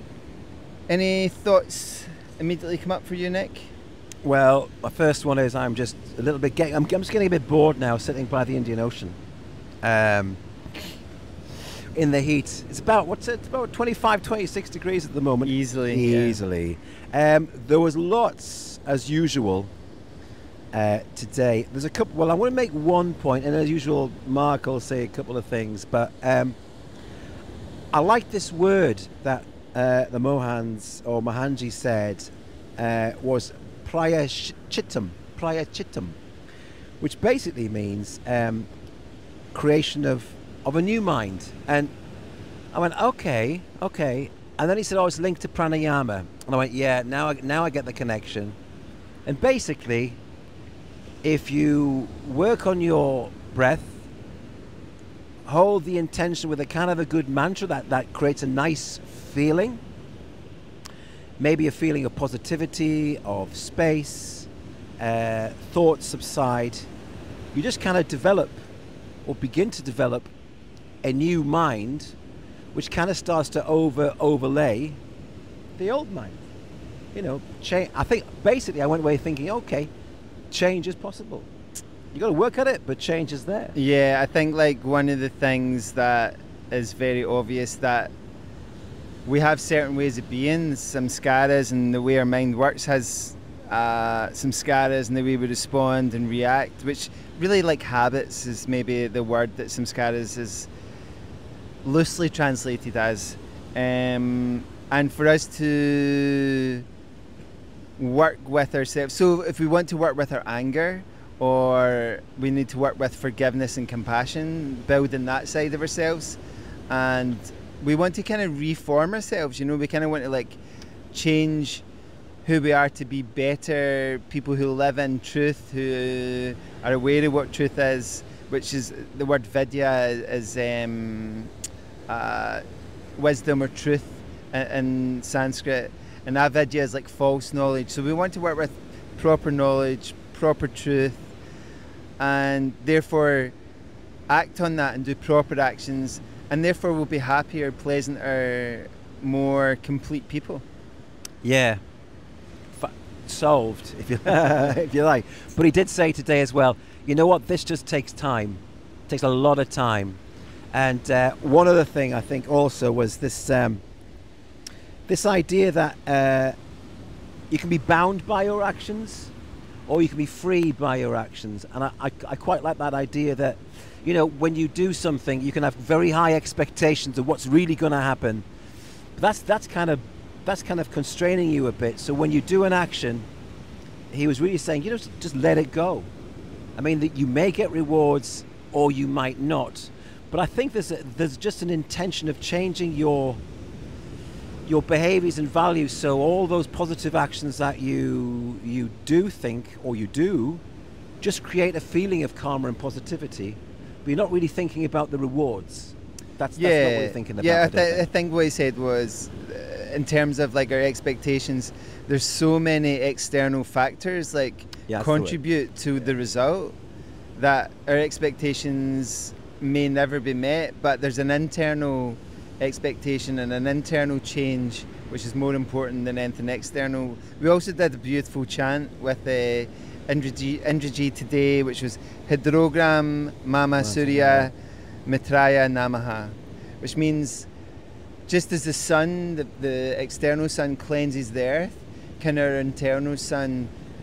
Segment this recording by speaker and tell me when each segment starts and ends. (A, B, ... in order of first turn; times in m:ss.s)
0:00.9-0:03.7 A
0:04.2-0:09.2 B
0:09.8-0:10.8 B
0:11.9-0:19.7 B
0:15.4-0:16.4 A
0:20.7-0:26.6 B
0:27.9-0:36.2 B
0:37.0-0:38.7 B
0:39.5-0:41.9 B
0:42.7-0:48.6 B
0:49.2-0:50.2 B
0:51.2-0:54.0 B
0:55.4-0:59.8 B
1:01.4-1:06.9 B
1:07.5-1:08.6 B
1:09.2-1:10.3 B
1:11.0-1:12.2 B
1:12.7-1:15.0 B
1:15.8-1:16.4 B
1:17.1-1:19.9 B
1:20.5-1:21.5 B
1:22.1-1:23.7 B
1:23.7-1:28.1 A
1:29.2-1:40.7 A
1:41.8-1:46.8 A
1:48.0-2:00.6 A
2:01.1-2:01.8 A
2:02.4-2:11.5 A
2:12.1-2:12.6 A
2:13.2-2:21.3 A
2:22.2-2:23.5 A
2:24.3-2:30.6 A
2:31.4-2:31.8 B
2:32.7-2:40.2 B
2:40.7-2:43.8 B
2:45.1-2:46.5 B
2:47.5-2:49.3 B
2:49.9-2:58.4 B
2:59.2-3:03.3 B
3:04.1-3:06.1 B
3:06.8-3:13.4 B
3:14.6-3:20.6 B
3:21.2-3:28.0 B
3:26.6-3:36.7 A
3:34.9-3:35.4 B
3:37.4-3:54.5 A
3:53.8-3:54.5 B
3:55.0-3:57.5 A
3:58.3-4:03.7 A